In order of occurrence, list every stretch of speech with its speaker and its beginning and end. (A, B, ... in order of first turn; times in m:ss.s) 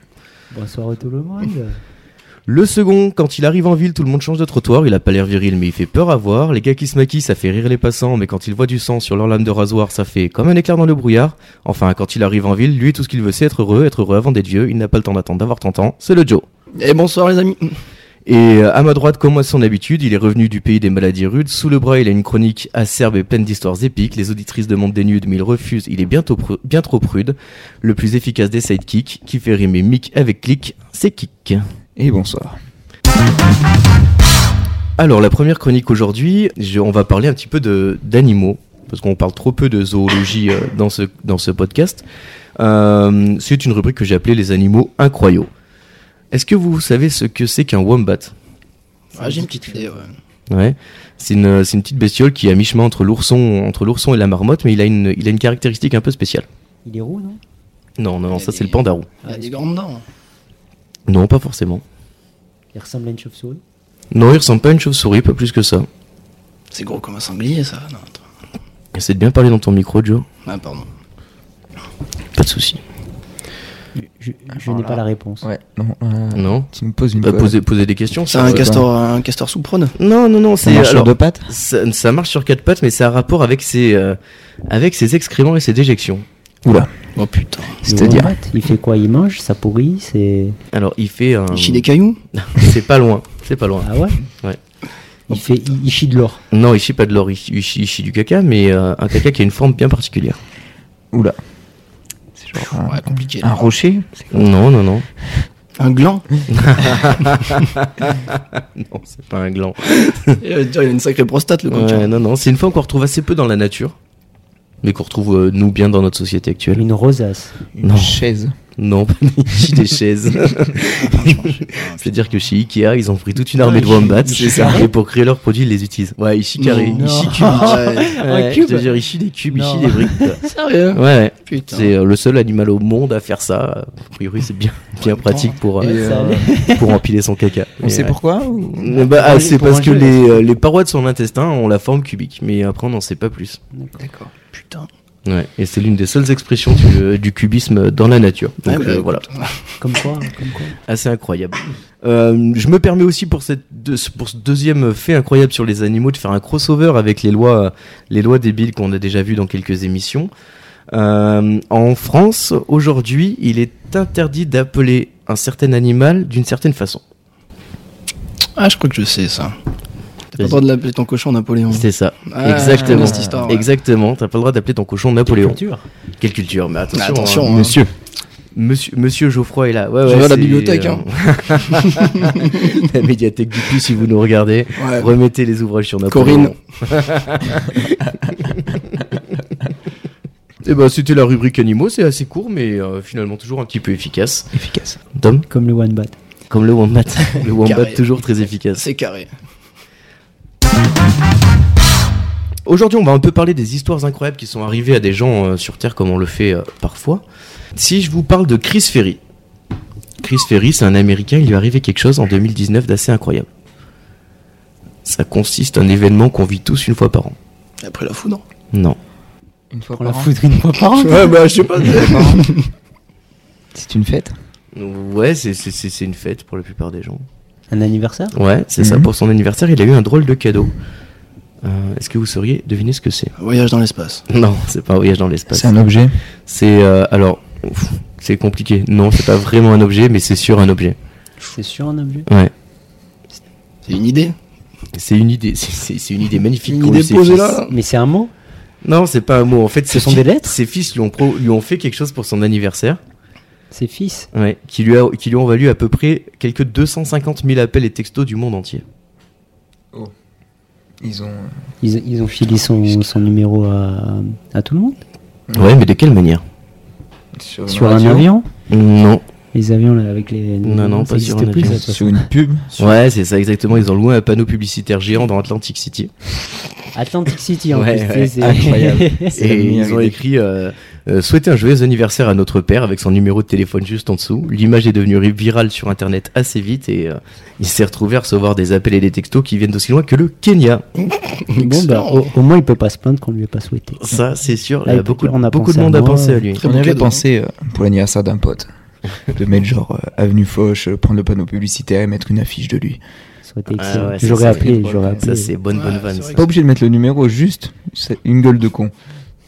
0:00.5-0:01.8 A
0:02.5-0:16.4 B
0:16.8-0:17.8 C
0:18.3-0:31.6 B
0:32.0-0:32.6 D
0:35.0-0:42.0 B
0:42.6-0:45.5 B
0:46.3-0:48.3 B
0:49.1-0:50.1 C
0:49.2-0:50.0 A
0:50.5-0:56.5 B
0:56.8-0:57.4 A
0:58.0-0:59.1 B
0:58.3-1:00.0 C
0:59.2-0:59.6 A
1:01.1-1:01.8 B
1:02.7-1:03.6 A
1:04.1-1:05.9 B
1:06.7-1:08.2 C
1:09.0-1:10.3 B
1:10.4-1:10.9 C
1:12.4-1:12.8 B
1:14.0-1:15.4 A
1:14.6-1:17.5 D
1:16.3-1:16.7 B
1:17.2-1:18.8 B
1:18.3-1:20.0 C
1:18.4-1:18.9 D
1:20.0-1:26.3 B
1:20.6-1:21.5 D
1:26.6-1:26.9 D
1:27.2-1:28.1 C
1:27.8-1:30.6 A
1:27.9-1:28.3 D
1:30.7-1:33.9 B
1:31.5-1:32.2 C
1:33.8-1:34.2 A
1:35.3-1:36.4 A
1:36.5-1:40.4 B
1:41.1-1:41.4 D
1:42.4-1:44.4 D
1:42.6-1:43.7 C
1:44.3-1:45.1 B
1:45.8-1:46.4 C
1:46.5-1:50.4 B
1:50.4-1:52.1 C
1:51.7-1:54.0 B
1:54.8-1:56.8 B
1:56.8-1:57.5 A
1:57.8-1:58.2 B
1:57.8-1:58.6 D
1:58.8-2:16.1 B
2:00.9-2:02.3 C
2:03.6-2:04.9 A
2:03.6-2:04.1 C
2:04.4-2:04.8 D
2:06.6-2:08.2 C
2:06.9-2:08.9 A
2:09.5-2:10.4 A
2:10.4-2:11.9 C
2:15.0-2:15.6 C
2:15.8-2:16.5 D
2:15.8-2:16.9 A
2:16.6-2:18.2 B
2:17.8-2:19.0 D
2:18.8-2:23.6 B
2:19.1-2:20.4 A
2:24.0-2:24.9 C
2:25.3-2:29.2 B
2:28.7-2:29.7 C
2:29.8-2:30.8 A
2:30.9-2:40.3 B
2:40.9-2:47.0 B
2:48.6-2:49.6 C
2:50.4-2:53.7 C
2:51.7-2:55.6 B
2:52.6-2:53.5 D
2:55.3-2:55.9 A
2:56.2-2:57.9 B
2:56.9-2:57.8 C
2:58.6-3:09.2 B
3:00.0-3:01.1 C
3:02.0-3:02.9 C
3:04.8-3:05.1 C
3:06.1-3:06.6 C
3:10.6-3:14.5 B
3:14.6-3:15.0 D
3:15.1-3:15.5 B
3:15.5-3:16.2 A
3:16.5-3:18.8 B
3:17.4-3:18.1 C
3:18.8-3:19.3 C
3:22.7-3:27.2 B
3:27.8-3:29.2 B
3:30.2-3:33.5 B
3:35.0-3:37.4 B
3:37.8-3:38.4 C
3:39.7-3:42.5 D
3:40.0-3:41.3 A
3:41.0-3:42.7 C
3:43.7-3:44.4 D
3:44.7-3:47.2 B
3:47.7-3:48.4 A
3:48.3-3:50.7 B
3:48.8-3:49.1 D
3:51.6-3:53.3 B
3:53.4-3:54.3 C
3:54.3-3:55.8 B
3:55.5-3:56.2 D
3:56.5-4:01.0 B
4:01.5-4:02.3 A
4:02.3-4:02.5 B
4:03.9-4:04.4 C
4:04.9-4:07.6 B
4:06.7-4:07.7 C
4:07.7-4:08.3 A
4:08.8-4:13.0 B
4:09.9-4:10.6 A
4:13.7-4:14.3 A
4:14.3-4:18.8 B
4:21.0-4:21.5 D
4:21.8-4:25.0 A
4:25.5-4:26.4 B
4:27.4-4:28.3 D
4:27.7-4:28.5 A
4:28.7-4:29.2 B
4:29.5-4:32.3 A
4:30.6-4:31.8 B
4:31.7-4:33.0 D
4:32.8-4:36.1 B
4:36.9-4:39.4 A
4:37.7-4:38.3 B
4:38.4-4:40.2 D
4:39.4-4:50.8 B
4:51.1-4:52.3 C
4:51.6-4:54.2 A
4:54.0-4:56.6 B
4:54.8-4:56.5 A
4:56.6-4:57.2 C
4:56.6-4:58.7 D
4:59.3-5:03.0 D
5:03.4-5:05.5 A
5:03.8-5:06.5 B
5:05.7-5:06.4 C
5:06.4-5:08.9 D